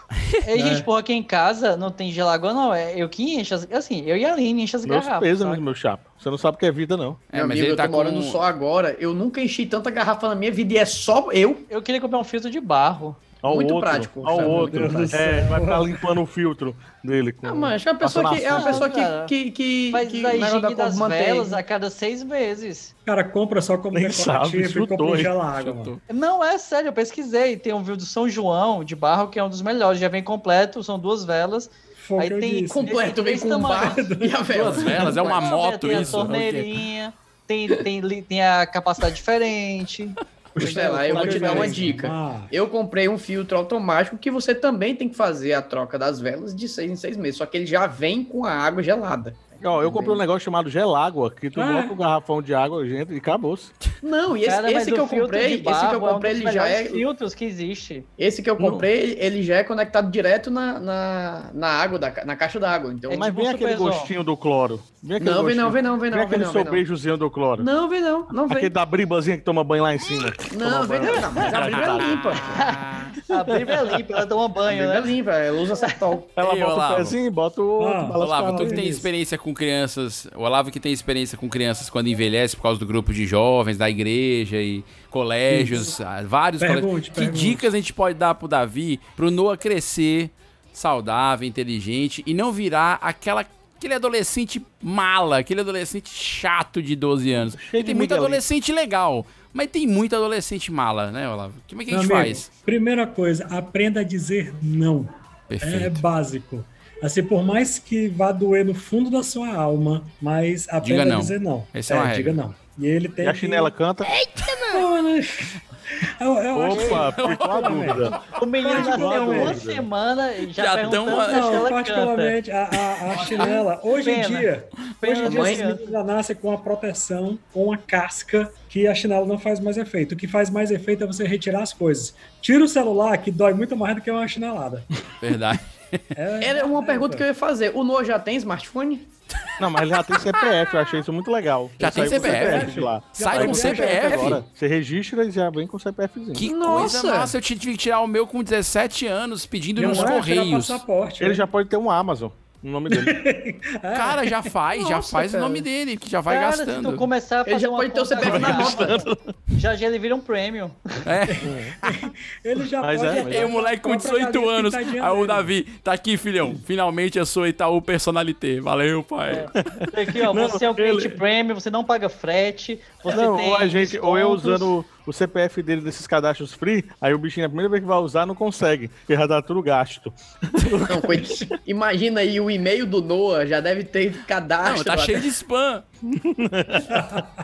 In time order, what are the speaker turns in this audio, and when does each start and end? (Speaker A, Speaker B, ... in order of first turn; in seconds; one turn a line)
Speaker A: 0.5-5.6
Speaker B: 0.6-0.9
Speaker C: 4.8-7.2
Speaker D: 7.3-8.4
Speaker E: 7.3-11.6
Speaker A: 11.7-13.2
Speaker C: 13.4-18.9
Speaker E: 13.5-15.1
Speaker B: 14.3-16.0
Speaker A: 14.7-15.1
Speaker E: 17.4-21.6
Speaker A: 18.5-19.3
Speaker A: 19.9-22.9
Speaker B: 23.1-25.9
Speaker C: 23.9-25.3
Speaker D: 25.5-26.0
Speaker A: 26.1-34.0
Speaker B: 32.0-33.1
Speaker E: 32.7-35.5
Speaker B: 33.8-35.1
Speaker D: 34.5-36.7
Speaker A: 35.1-41.9
Speaker B: 35.9-36.3
Speaker B: 40.6-42.5
Speaker E: 40.6-50.2
Speaker C: 40.6-41.8
Speaker C: 49.6-53.7
Speaker B: 51.5-52.0
Speaker E: 54.0-57.0
Speaker A: 54.5-58.1
Speaker E: 58.2-63.3
Speaker C: 58.6-58.9
Speaker A: 63.1-64.1
Speaker C: 63.1-67.7
Speaker E: 65.2-66.8
Speaker E: 67.6-68.7
Speaker C: 68.5-72.3
Speaker E: 70.5-72.5
Speaker A: 72.5-75.1
Speaker C: 73.5-73.8
Speaker E: 74.7-76.3
Speaker C: 76.3-78.8
Speaker D: 76.4-77.1
Speaker B: 77.8-79.1
Speaker D: 78.2-102.5
Speaker B: 85.5-85.9
Speaker B: 86.6-87.7
Speaker C: 97.3-98.4
Speaker B: 101.9-113.7
Speaker D: 105.5-106.0
Speaker D: 110.8-112.4
Speaker C: 113.2-114.1
Speaker B: 114.7-119.7
Speaker C: 116.5-118.1
Speaker A: 116.7-117.1
Speaker D: 117.0-118.0
Speaker A: 118.3-122.3
Speaker C: 118.7-119.8
Speaker D: 120.6-121.7
Speaker B: 121.2-134.9
Speaker A: 123.2-124.5
Speaker A: 125.0-125.8
Speaker E: 125.2-125.7
Speaker D: 135.2-136.0
Speaker B: 136.2-137.2
Speaker E: 136.4-139.1
Speaker C: 139.6-146.5
Speaker D: 141.8-144.4
Speaker B: 141.8-144.3
Speaker D: 146.3-150.8
Speaker E: 146.4-147.3
Speaker B: 149.8-151.4
Speaker C: 149.8-150.2
Speaker C: 151.2-153.2
Speaker B: 152.9-154.4
Speaker D: 153.9-157.1
Speaker E: 154.7-155.6
Speaker A: 156.3-159.0
Speaker E: 157.4-159.0
Speaker C: 158.8-159.2
Speaker A: 159.5-160.8
Speaker D: 161.1-161.4
Speaker B: 161.3-165.5
Speaker C: 161.4-161.8
Speaker C: 162.8-163.5
Speaker D: 163.2-169.5
Speaker A: 169.3-174.7
Speaker C: 169.7-171.2
Speaker C: 173.1-181.5
Speaker E: 180.9-185.2
Speaker D: 184.6-185.8
Speaker C: 186.1-187.0